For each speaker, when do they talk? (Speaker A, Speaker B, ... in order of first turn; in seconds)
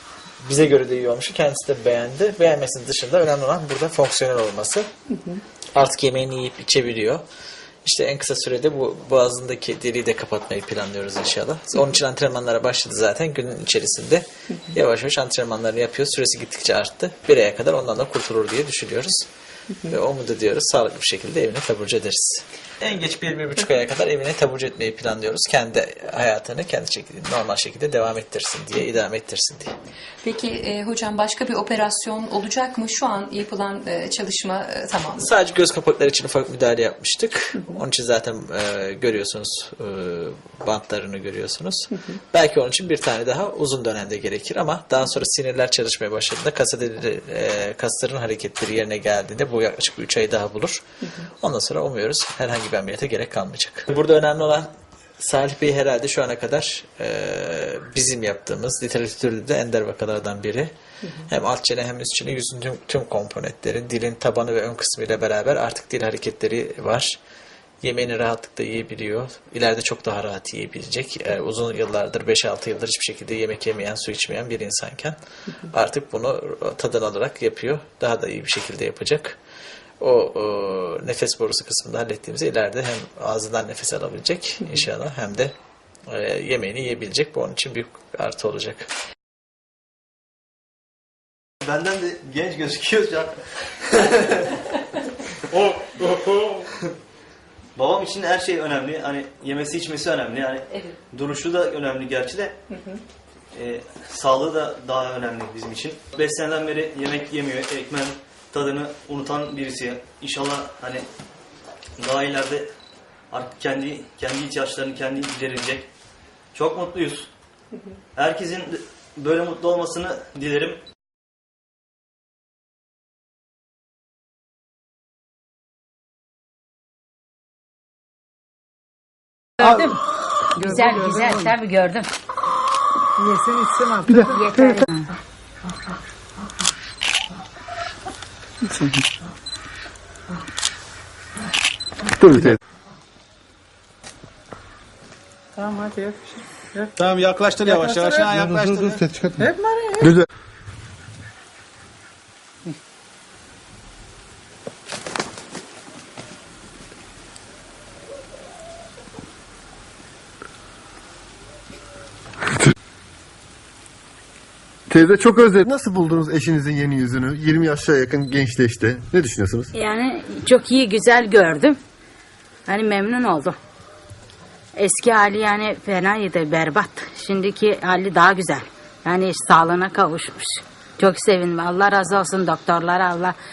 Speaker A: 0.4-4.9, 5.7-7.2, 7.8-19.3, 19.9-29.8, 35.2-67.2, 67.8-79.4, 80.0-85.5, 86.1-88.9
Speaker B: 30.2-35.2
Speaker C: 91.6-94.6, 95.5-96.9, 97.8-102.5, 103.5-111.1, 112.0-112.7, 113.3-115.9, 116.5-117.3, 118.1-120.8
Speaker D: 129.6-130.0, 130.6-132.1, 134.1-135.1, 169.7-171.8, 172.7-173.6, 174.8-183.3
Speaker E: 130.6-131.3, 133.2-134.3, 145.6-146.9, 147.7-148.3, 149.4-150.2
Speaker F: 142.2-142.6, 164.9-169.7
Speaker G: 147.0-149.1